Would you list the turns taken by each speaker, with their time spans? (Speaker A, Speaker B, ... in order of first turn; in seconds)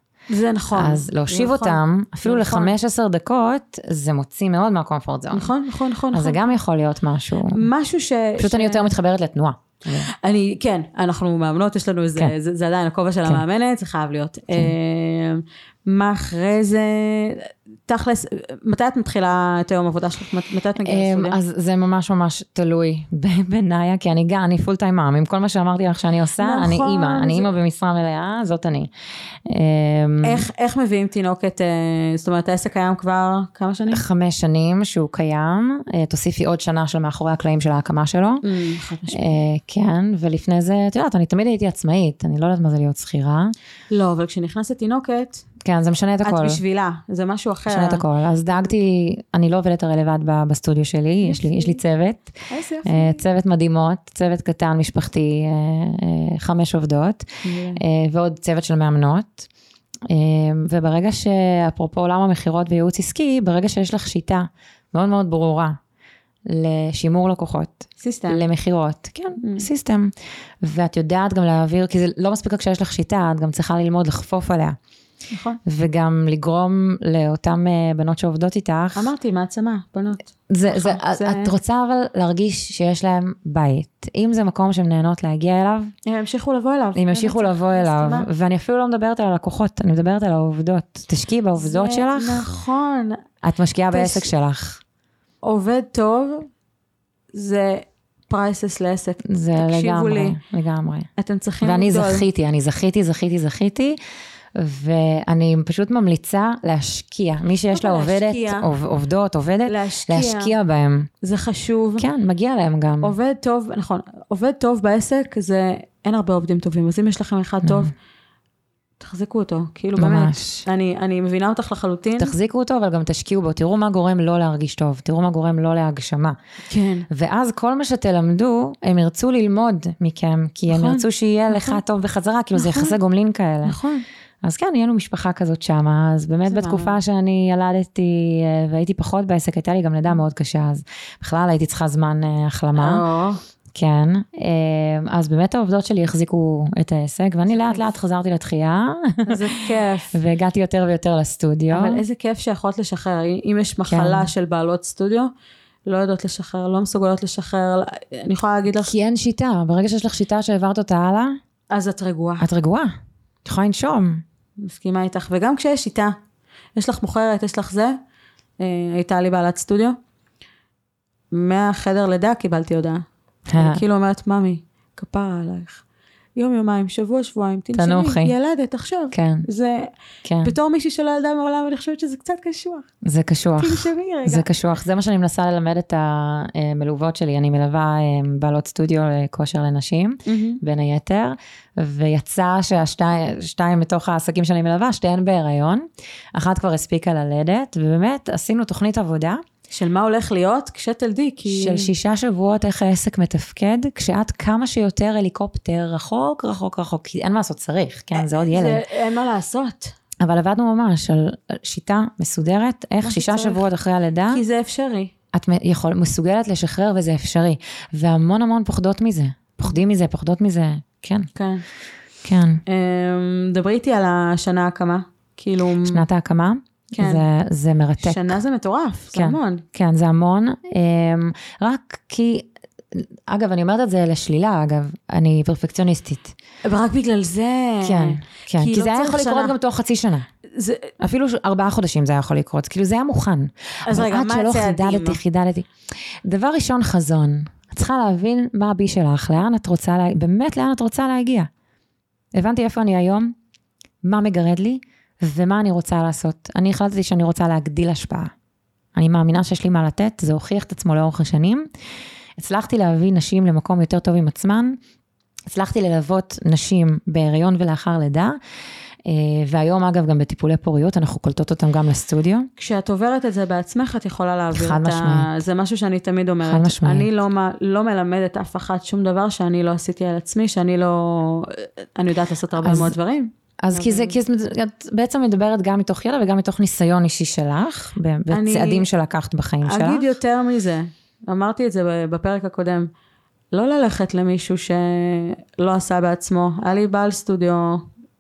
Speaker A: 0.3-2.7, 5.3-6.5, 7.5-8.9, 9.9-21.4, 26.4-27.5, 30.2-34.0, 38.4-39.4, 43.9-45.5, 46.2-48.0, 51.2-51.8, 52.5-53.2, 57.4-57.8, 68.0-68.5, 69.4-69.7, 75.3-75.6, 79.0-81.5, 86.1-88.3, 91.6-93.2, 93.9-94.3, 95.4-96.5, 97.3-100.4, 101.2-102.2, 107.7-108.7, 109.7-110.5, 111.2-112.0, 113.0-117.9, 119.0-122.3, 126.7-127.1, 130.7-131.8, 132.6-133.0, 133.7-134.0, 136.5-137.0, 142.8-143.4, 149.3-150.2, 151.7-155.3, 155.9-158.9, 161.7-162.5, 164.6-166.2, 166.8-168.0, 168.6-170.0, 171.3-175.8, 176.4-179.9, 180.4-182.9, 183.6-184.5, 190.3-190.6, 199.7-201.9, 208.2-209.9, 213.0-213.6, 214.3-215.1, 221.3-221.7, 222.7-226.1, 226.9-227.2, 228.0-229.6, 236.7-239.6, 240.5-240.9, 243.8-245.2, 272.6-284.2, 288.3-288.9, 289.6-292.9, 293.5-297.9
Speaker B: 0.7-5.5, 6.1-7.7, 8.4-10.1, 20.8-28.9, 29.4-30.4, 33.9-38.4, 39.1-43.5, 45.6-46.6, 47.7-59.5, 60.1-65.8, 66.5-74.8, 75.7-79.1, 80.5-85.9, 87.0-92.5, 93.4-94.8, 99.2-101.1, 101.6-104.0, 104.5-111.1, 112.0-113.2, 117.6-117.9, 120.0-120.7, 122.2-126.4, 127.1-133.8, 134.4-143.0, 143.7-149.4, 150.1-152.0, 153.9-154.3, 158.8-161.4, 162.4-162.9, 163.4-164.2, 173.5-173.8, 177.8-178.3, 179.1-179.5, 180.2-180.6, 183.0-199.4, 201.5-208.8, 210.2-214.4, 215.3-221.3, 222.2-222.6, 225.8-228.4, 229.1-236.3, 237.8-240.3, 241.0-251.5, 252.3-253.3, 254.0-258.3, 258.9-261.7, 262.4-264.8, 265.5-268.4, 269.1-272.5, 274.5-275.3, 276.4-277.1, 282.6-282.9, 283.6-290.1